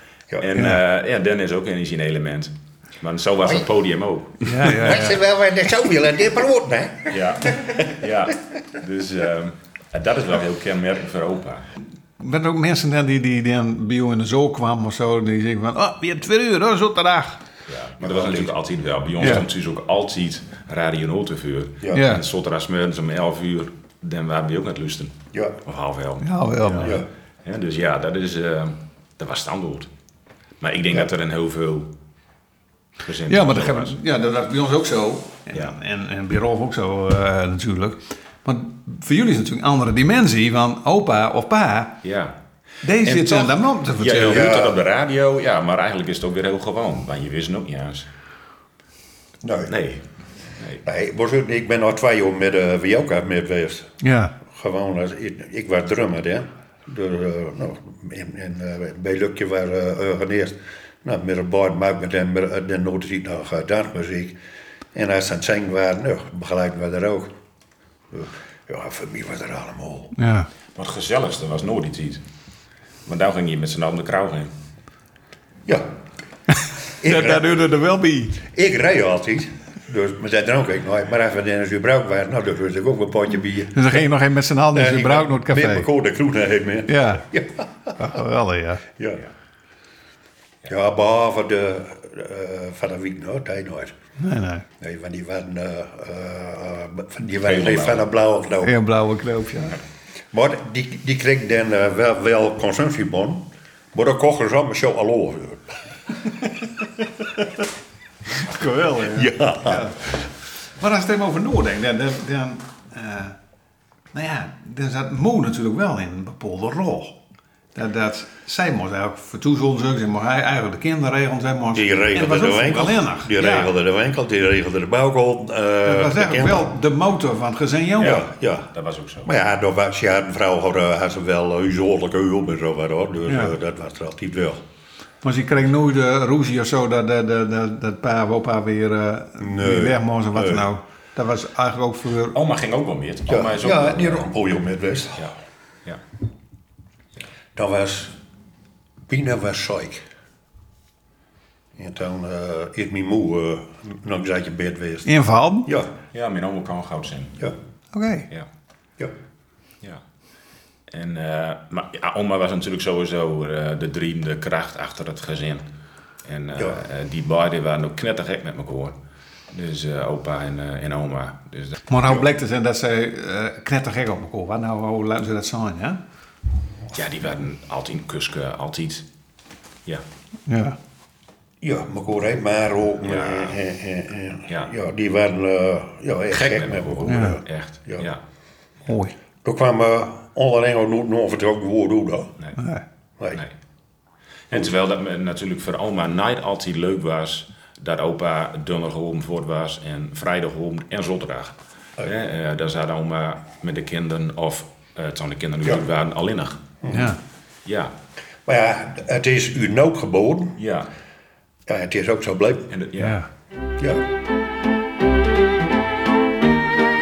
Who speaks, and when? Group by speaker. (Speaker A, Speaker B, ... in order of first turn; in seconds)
Speaker A: 0.4-4.5, 7.1-11.6, 17.7-29.9, 30.6-31.9, 33.0-34.0, 42.0-42.4, 43.0-48.1, 49.7-50.0, 50.6-50.8, 70.8-72.2, 73.1-74.5, 97.4-98.1, 128.0-129.3, 142.3-144.3, 156.1-157.4, 160.9-165.6, 166.3-168.9, 169.5-171.8, 176.9-179.1, 183.1-183.6, 186.3-188.2, 194.5-206.6, 207.7-207.9, 210.6-210.9, 212.7-213.2
Speaker B: 4.5-5.2, 12.2-17.4, 21.9-22.2, 26.2-27.0, 33.3-42.0, 42.8-44.5, 54.0-54.4, 70.2-70.5, 77.0-78.4, 83.7-85.9, 86.9-87.3, 88.0-88.8, 94.2-94.7, 98.6-99.8, 108.4-110.0, 110.8-113.4, 114.1-117.2, 117.8-123.7, 125.9-128.2, 135.2-142.4, 155.1-155.7, 157.9-158.3, 171.9-176.0, 180.5-180.8, 187.1-187.4, 188.9-189.1, 192.6-192.8, 206.9-207.2, 213.0-213.3
Speaker C: 4.7-7.3, 18.0-18.5, 25.3-25.6, 26.8-27.1, 44.3-44.8, 49.4-49.7, 50.9-53.9, 54.5-64.4, 64.9-67.3, 68.1-70.1, 77.0-77.5, 78.5-84.0, 84.7-87.6, 90.7-93.9, 94.8-98.7, 100.3-105.7, 109.0-109.8, 121.7-126.7, 128.0-128.7, 129.2-134.6, 139.4-140.7, 143.3-145.3, 147.6-148.1, 149.1-150.0, 151.8-155.1, 155.6-155.9, 181.6-188.1, 189.4-192.3, 206.8-207.1, 208.5-210.6, 211.7-212.7